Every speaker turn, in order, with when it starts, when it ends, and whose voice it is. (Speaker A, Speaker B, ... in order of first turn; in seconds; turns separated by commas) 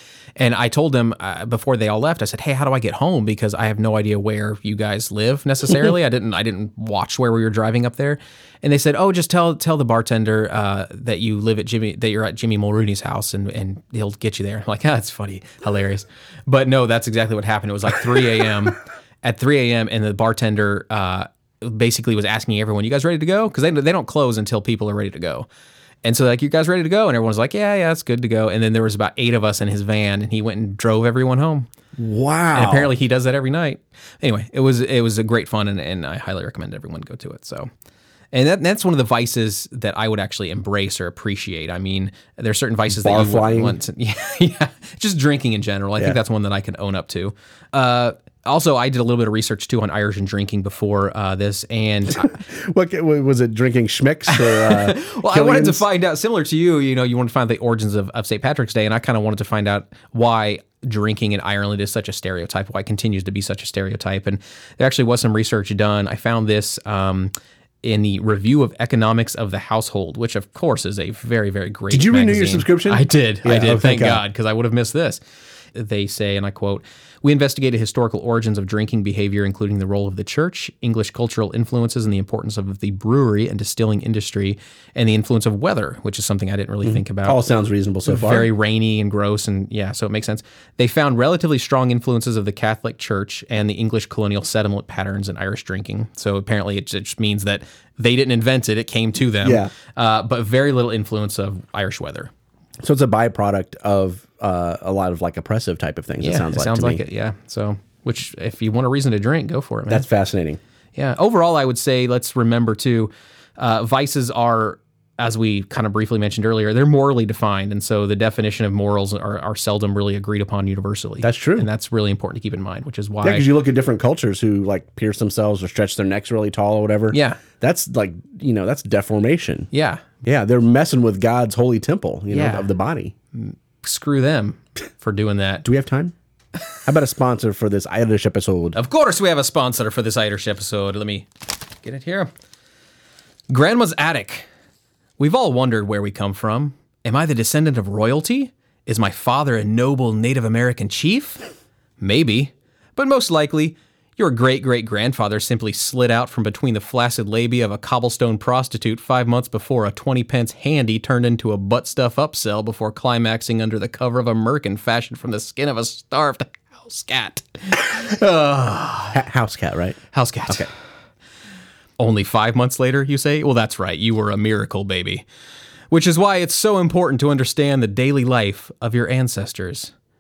Speaker A: 0.4-25.5, Speaker A: 26.0-31.7, Speaker B: 32.0-32.9, Speaker A: 32.5-37.7, Speaker A: 38.3-52.4, Speaker B: 42.9-43.8, Speaker B: 52.1-55.9, Speaker A: 54.3-67.3, Speaker A: 67.8-75.2, Speaker B: 71.9-74.2, Speaker A: 75.7-87.4, Speaker B: 86.8-88.5, Speaker A: 88.0-102.3, Speaker B: 99.4-99.7, Speaker B: 102.8-107.0, Speaker A: 106.2-110.1, Speaker B: 109.9-110.6, Speaker A: 111.0-123.5, Speaker B: 121.2-121.7, Speaker B: 123.2-129.7, Speaker A: 127.1-127.4, Speaker A: 129.7-130.1, Speaker B: 130.2-133.1, Speaker A: 132.3-132.7, Speaker A: 133.3-135.6, Speaker B: 135.6-136.1, Speaker B: 136.8-138.8, Speaker A: 138.7-141.3, Speaker A: 141.8-142.3, Speaker A: 143.5-144.5, Speaker A: 145.2-151.4, Speaker A: 152.0-169.2, Speaker B: 169.1-170.0, Speaker A: 170.1-170.7, Speaker A: 172.0-175.2, Speaker A: 175.9-179.9